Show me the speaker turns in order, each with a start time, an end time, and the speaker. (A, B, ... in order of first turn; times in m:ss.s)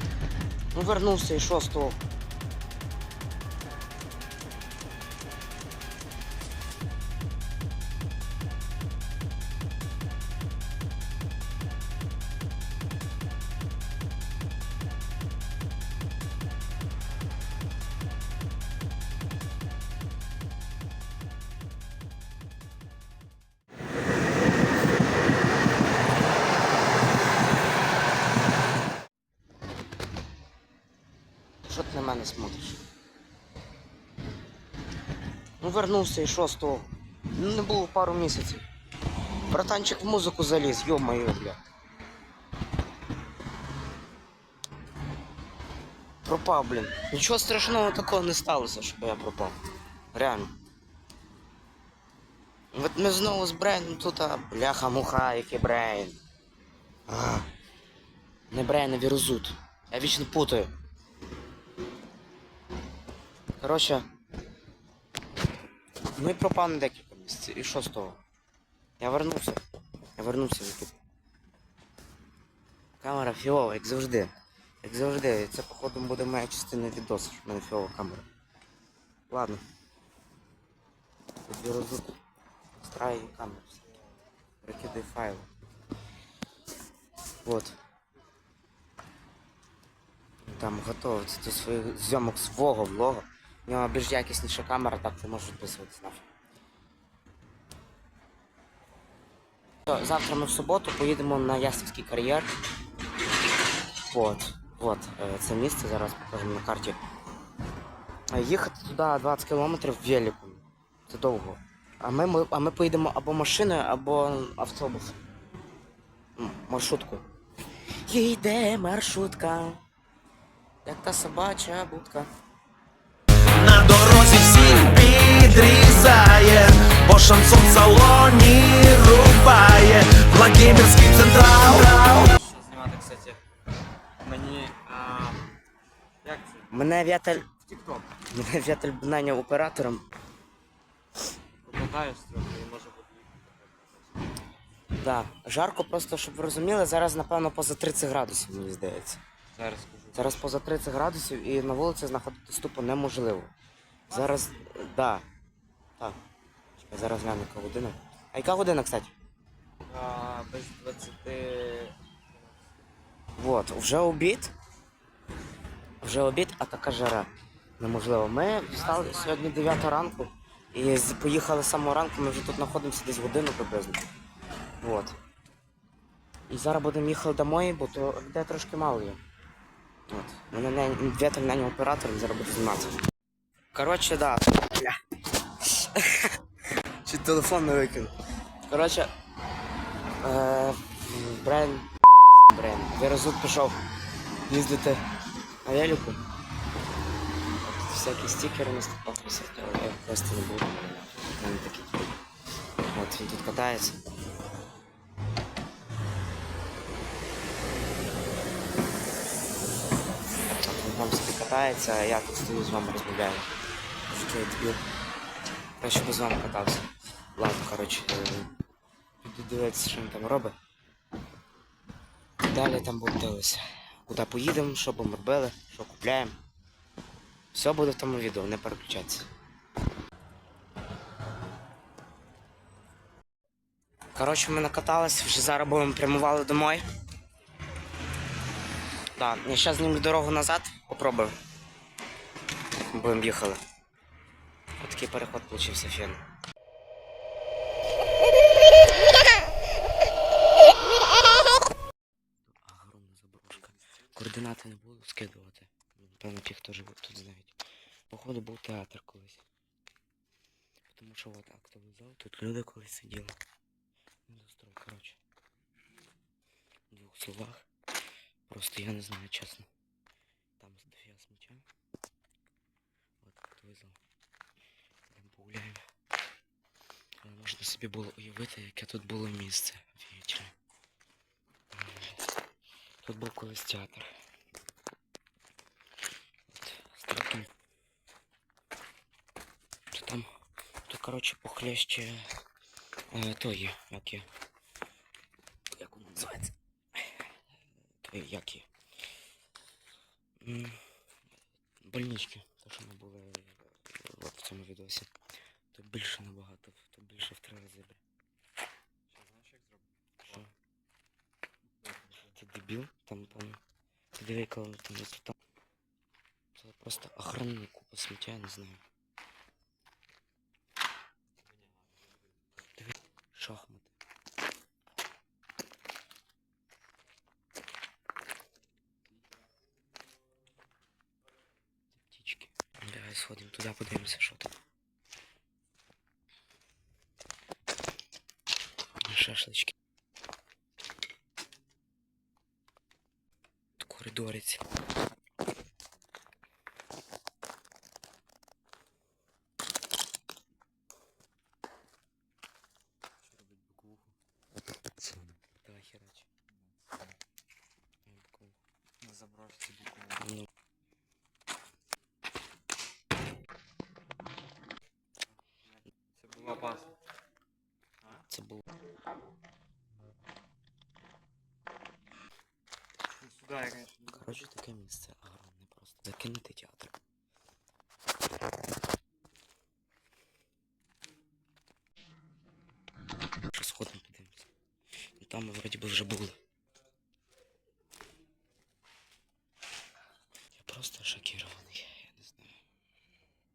0:00.7-0:02.0 A
0:31.6-0:32.8 A
0:35.6-0:38.6 A
0:39.5-0:41.6 A
0:46.2-0:49.6 A
0:50.1-0:50.5 A
0:52.7-0:56.2 A
0:57.1-0:57.5 A
0:58.5-1:00.7 A
1:03.6-1:04.0 A
1:06.1-1:08.2 A
1:09.0-1:09.6 A
1:10.2-1:10.9 A
1:13.0-1:18.3 A
1:19.3-1:19.6 A
1:21.4-1:22.1 A
1:22.8-1:23.8 A
1:24.6-1:25.5 A
1:27.4-1:27.8 A
1:30.4-1:36.3 A
1:39.9-1:42.5 A
1:44.0-1:47.0 A
1:48.3-1:55.2 A
1:56.4-1:57.2 A
1:58.0-1:59.8 A
2:00.8-2:02.3 A
2:03.5-2:12.3 B
2:12.1-2:13.4 C
2:14.2-2:15.5 C
2:16.2-2:16.7 C
2:16.7-2:17.5 A
2:17.6-2:18.1 C
2:18.2-2:20.0 A
2:21.6-2:24.3 C
2:24.9-2:29.2 A
2:29.5-2:30.5 C
2:30.1-2:33.5 A
2:34.1-2:35.2 A
2:36.8-2:39.1 A
2:39.9-2:42.5 C
2:43.4-2:44.5 A
2:46.0-2:54.0 A
2:54.8-2:55.2 A
2:56.5-2:59.2 A
3:00.1-3:02.9 A
3:03.7-3:08.1 A
3:08.7-3:09.1 A
3:10.2-3:13.8 A
3:14.4-3:15.0 A
3:15.6-3:16.2 A
3:17.6-3:22.1 A
3:22.8-3:24.0 A
3:30.6-3:33.5 A
3:34.1-3:34.8 A
3:35.8-3:38.5 A
3:39.2-3:40.5 A
3:42.4-3:46.4 A
3:47.5-3:49.3 A
3:54.1-3:56.8 A
3:59.1-4:01.4 A
4:02.8-4:03.6 A
4:04.8-4:06.2 A
4:12.4-4:19.4 A
4:20.9-4:23.4 A
4:24.3-4:25.2 A
4:26.9-4:27.7 A
4:28.5-4:29.7 A
4:30.6-4:31.6 A
4:33.2-4:34.0 A
4:35.1-4:35.8 A
4:37.2-4:40.5 A
4:41.7-4:42.2 A
4:43.0-4:44.1 A
4:46.5-4:47.5 A
4:49.9-4:50.3 A
4:50.8-4:52.3 A
4:53.1-4:54.3 A
4:55.7-4:57.3 A
4:58.0-4:58.7 A
5:00.4-5:00.8 A
5:01.8-5:05.1 A
5:05.7-5:08.0 A
5:09.1-5:10.4 C
5:10.2-5:10.5 A
5:11.8-5:12.3 C
5:12.3-5:13.6 A
5:14.1-5:15.3 A
5:16.6-5:18.8 A
5:22.7-5:24.0 A
5:31.9-5:34.5 A
5:39.0-5:39.7 A
5:43.8-5:44.7 A
5:53.2-5:54.1 C
5:55.0-5:55.4 C
5:55.5-5:56.3 A
5:58.0-5:58.6 A
5:59.0-6:00.3 C
6:00.2-6:00.5 A
6:06.1-6:06.9 C
6:08.1-6:08.7 A
6:13.2-6:14.4 C
6:14.1-6:16.9 A
6:23.5-6:24.5 A
6:25.1-6:26.4 A
6:30.5-6:32.6 A